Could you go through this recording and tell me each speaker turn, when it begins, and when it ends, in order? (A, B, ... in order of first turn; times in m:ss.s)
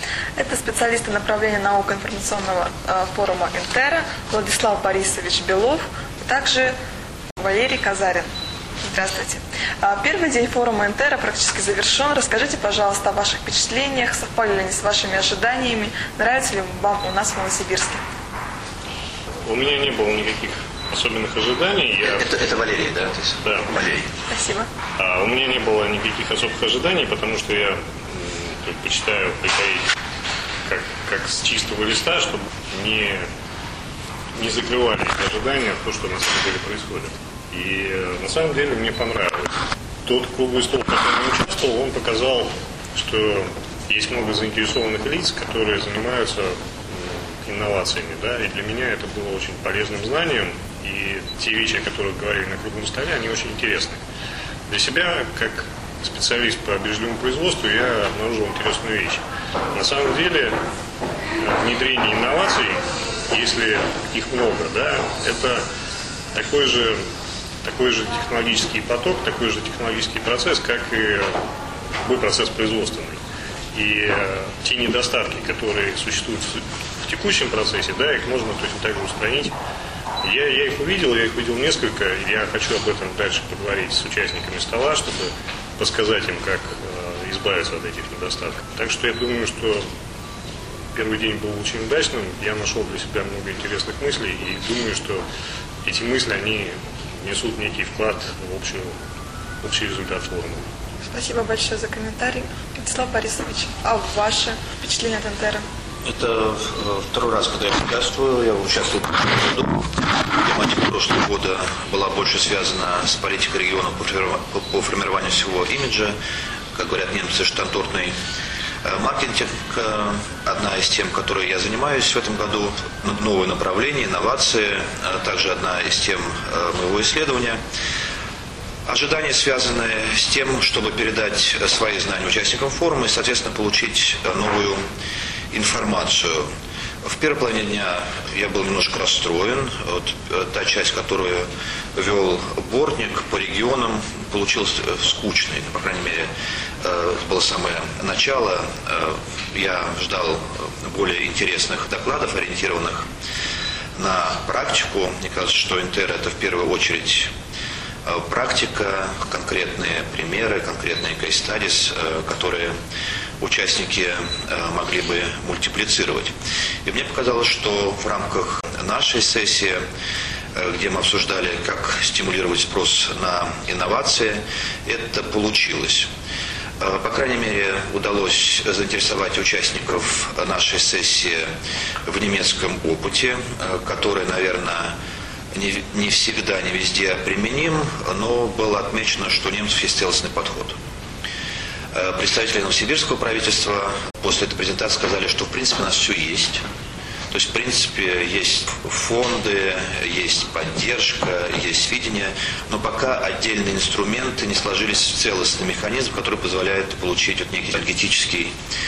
0:00.4-0:06.7 A
0:07.4-0:08.3 A
0:08.8-0:18.0 A
0:19.4-0:22.3 B
0:22.0-0:24.1 C
0:23.4-0:23.7 B
0:24.3-0:24.7 A
0:25.0-0:29.8 B
0:30.7-0:33.3 B
0:34.4-0:39.5 B
0:40.1-0:54.0 B
0:54.7-0:59.2 B
0:59.7-1:00.6 B
1:01.4-1:05.6 B
1:06.3-1:07.0 B
1:07.6-1:11.3 B
1:12.0-1:13.2 B
1:13.7-1:19.5 B
1:20.2-1:29.8 B
1:30.9-1:35.2 B
1:35.8-1:38.9 B
1:39.6-1:40.6 B
1:41.1-1:45.6 A
1:46.0-1:49.8 C
1:50.4-1:56.2 C
1:56.7-1:58.1 C
1:58.8-2:07.6 C
2:08.8-2:14.8 C
2:15.5-2:16.5 C
2:17.0-2:26.3 C
2:26.8-2:33.1 C
2:34.0-2:37.3 C
2:38.0-2:42.7 C
2:43.4-2:46.3 C
2:46.8-2:49.8 C
2:50.5-2:56.1 C
2:56.8-3:01.4 C
3:02.1-3:05.0 C
3:05.5-3:10.8 C
3:11.9-3:16.6 C
3:17.3-3:28.5 C